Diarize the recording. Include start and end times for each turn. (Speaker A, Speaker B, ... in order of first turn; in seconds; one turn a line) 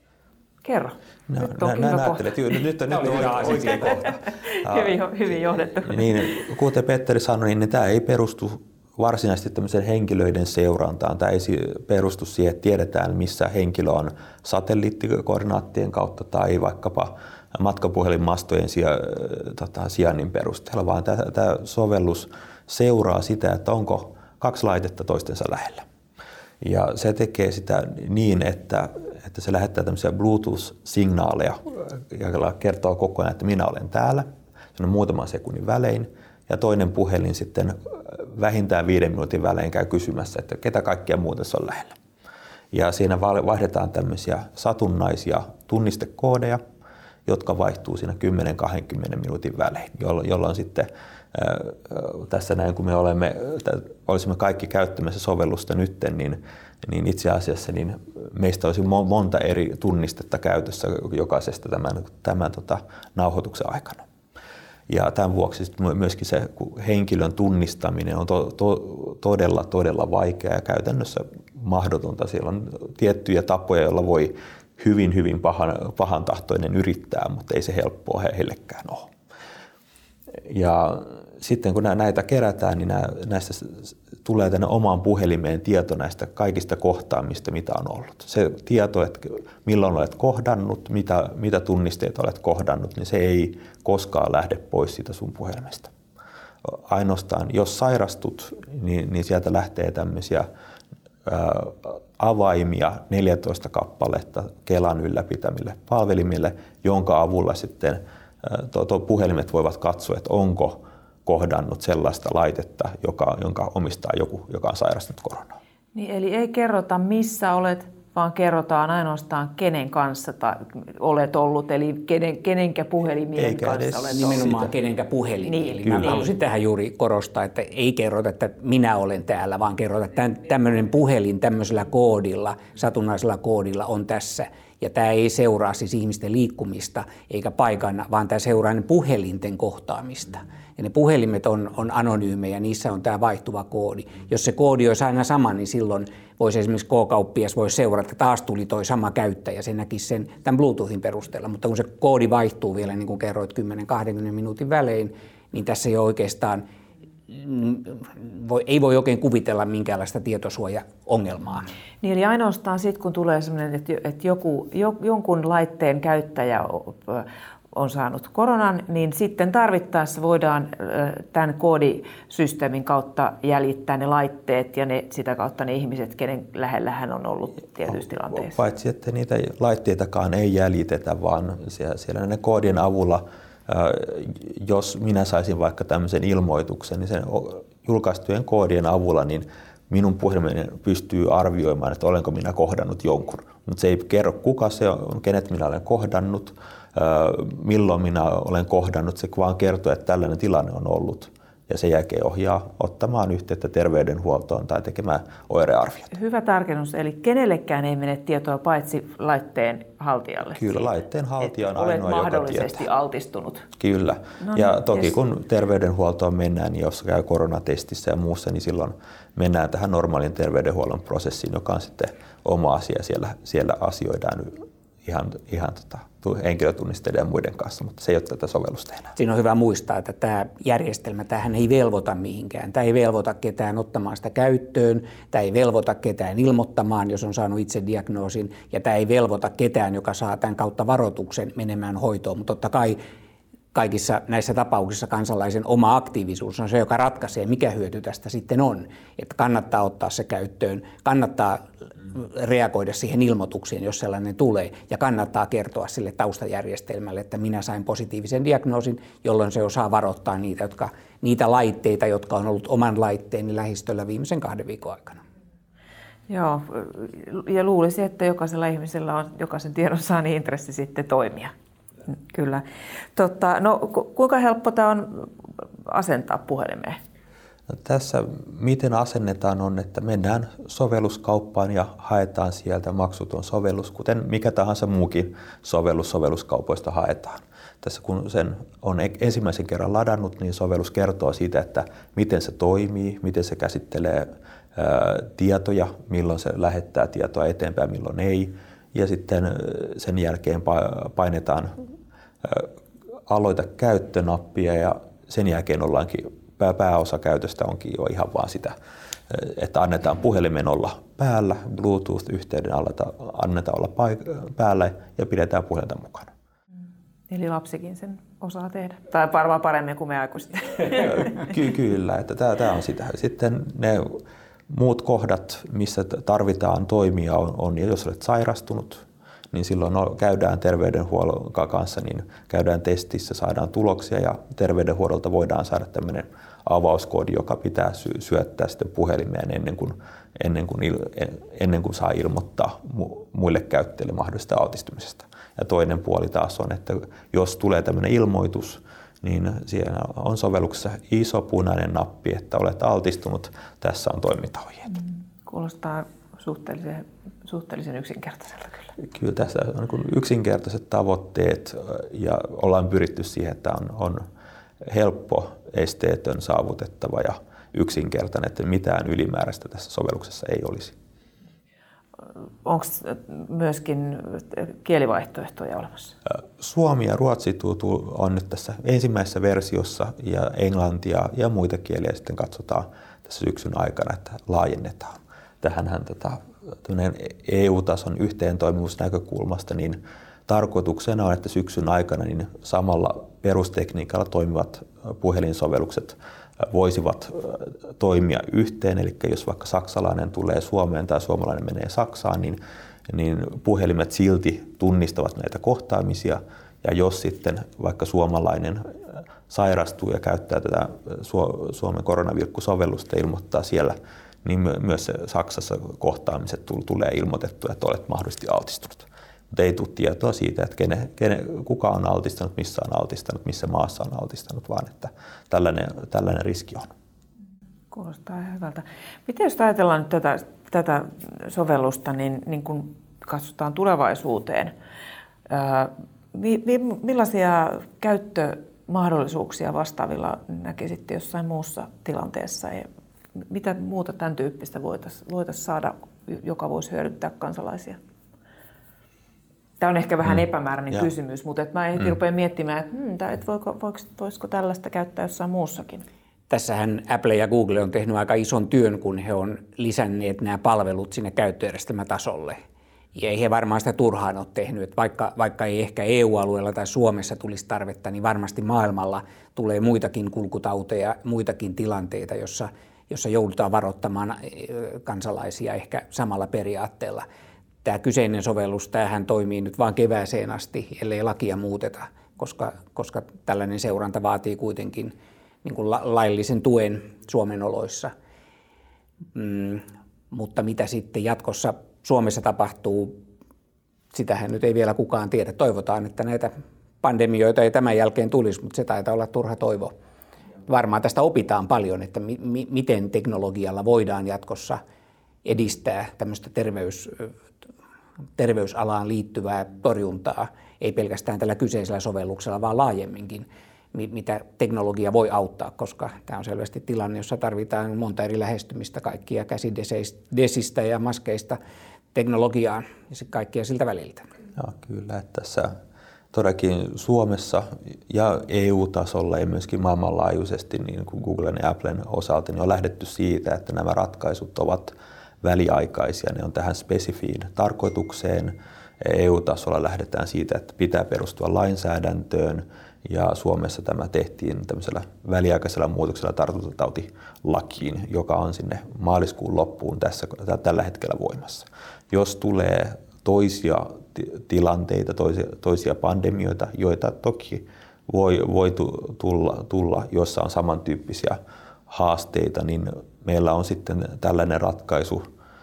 Speaker A: 0.6-2.6
Speaker B: 1.3-5.0
Speaker C: 2.9-4.0
Speaker A: 3.9-6.4
Speaker B: 5.8-25.8
Speaker B: 26.6-42.0
Speaker B: 42.7-46.6
Speaker B: 47.2-64.0
Speaker B: 64.9-79.1
Speaker B: 80.4-95.9
Speaker B: 96.6-100.5
Speaker B: 101.2-115.6
Speaker A: 115.9-124.5
Speaker B: 123.3-124.7
Speaker C: 124.1-156.6
Speaker A: 125.5-126.3
Speaker B: 125.8-126.2
Speaker C: 157.3-161.7
Speaker A: 162.0-178.6
Speaker B: 178.3-206.1
Speaker A: 206.1-210.9
Speaker B: 210.4-212.8
Speaker A: 211.6-213.7
Speaker B: 213.8-229.1
Speaker A: 214.4-215.1
Speaker C: 229.2-243.0
Speaker C: 243.7-265.2
Speaker A: 266.3-271.5
Speaker A: 272.1-277.0
Speaker B: 277.7-301.7
Speaker B: 302.4-302.7
Speaker B: 303.3-308.7
Speaker B: 309.3-316.3
Speaker A: 317.3-321.4
Speaker B: 321.0-354.9
Speaker A: 355.4-358.9
Speaker B: 359.0-364.2
Speaker B: 364.8-370.9
Speaker A: 372.6-376.1
Speaker B: 376.3-426.9
Speaker A: 427.9-434.7
Speaker A: 435.5-448.0
Speaker A: 449.8-456.1
Speaker C: 456.5-462.6
Speaker C: 463.1-477.2
Speaker C: 477.8-488.1
Speaker C: 489.3-493.2
Speaker C: 494.1-499.9
Speaker C: 500.6-504.8
Speaker C: 505.4-507.3
Speaker C: 508.4-521.6
Speaker C: 522.1-524.3
Speaker B: 524.6-525.7
Speaker B: 526.3-561.4
Speaker B: 561.9-565.2